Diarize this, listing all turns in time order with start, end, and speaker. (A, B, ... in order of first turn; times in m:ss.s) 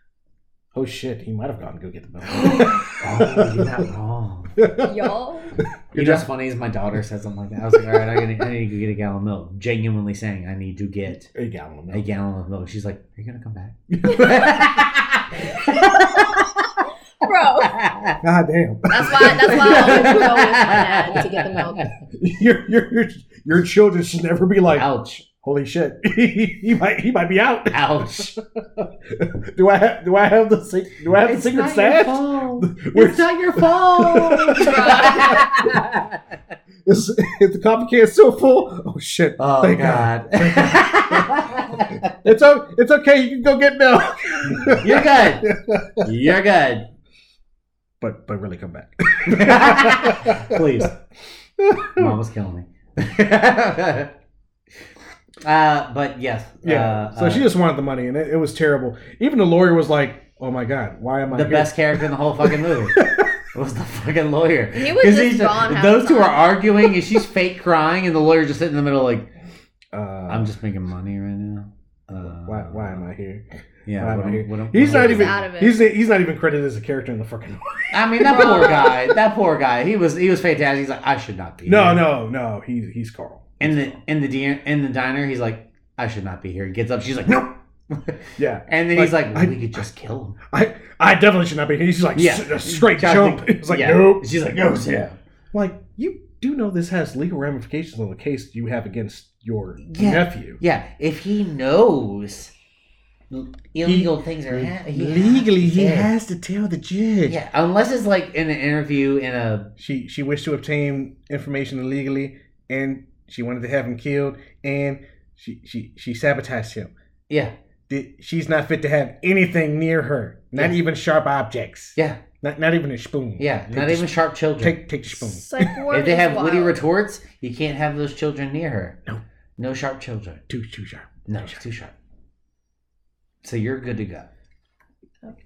0:00.7-0:03.9 A
0:02.4-0:04.6 B
0:04.6-0:06.3 A
0:04.8-0:05.6 C
0:05.9-0:11.3 B
0:07.7-0:08.1 A
0:11.4-0:12.1 A
0:11.9-0:16.5 B
0:13.9-0:14.8 A
0:15.8-0:16.2 A
0:17.2-0:17.7 C
0:17.6-0:18.2 B
0:18.2-0:21.2 A
0:18.9-0:21.9 C
0:19.1-0:21.9 B
0:22.1-0:35.8 A
0:24.7-0:25.2 B
0:27.7-0:28.4 B
0:31.2-0:36.1 B
0:34.5-0:35.4 C
0:36.9-0:46.1 A
0:39.4-0:42.1 B
0:44.7-0:45.5 B
0:46.0-0:46.9 B
0:48.0-0:50.9 A
0:49.3-0:51.0 B
0:51.6-0:52.2 A
0:52.0-0:54.1 B
0:55.4-0:57.5 B
0:56.6-1:03.4 A
1:01.3-1:09.3 B
1:04.7-1:06.7 C
1:09.9-1:10.6 A
1:10.3-1:13.1 B
1:12.2-1:13.5 A
1:13.9-1:15.4 B
1:14.0-1:18.9 A
1:14.8-1:15.8 C
1:17.9-1:22.1 B
1:18.3-1:19.1 C
1:21.6-1:24.0 A
1:23.6-1:30.4 B
1:28.4-1:29.9 A
1:30.5-1:34.3 A
1:32.2-1:35.2 B
1:35.5-1:40.6 A
1:39.8-1:42.5 B
1:43.3-1:46.1 B
1:43.8-1:47.4 A
1:47.3-1:49.7 B
1:49.8-1:56.9 A
1:57.3-1:57.5 B
1:57.9-2:05.8 A
2:02.0-2:02.2 B
2:03.4-2:04.9 B
2:05.4-2:06.8 C
2:05.9-2:09.0 B
2:09.6-2:10.4 B
2:10.5-2:11.6 A
2:11.3-2:11.9 B
2:13.4-2:14.3 B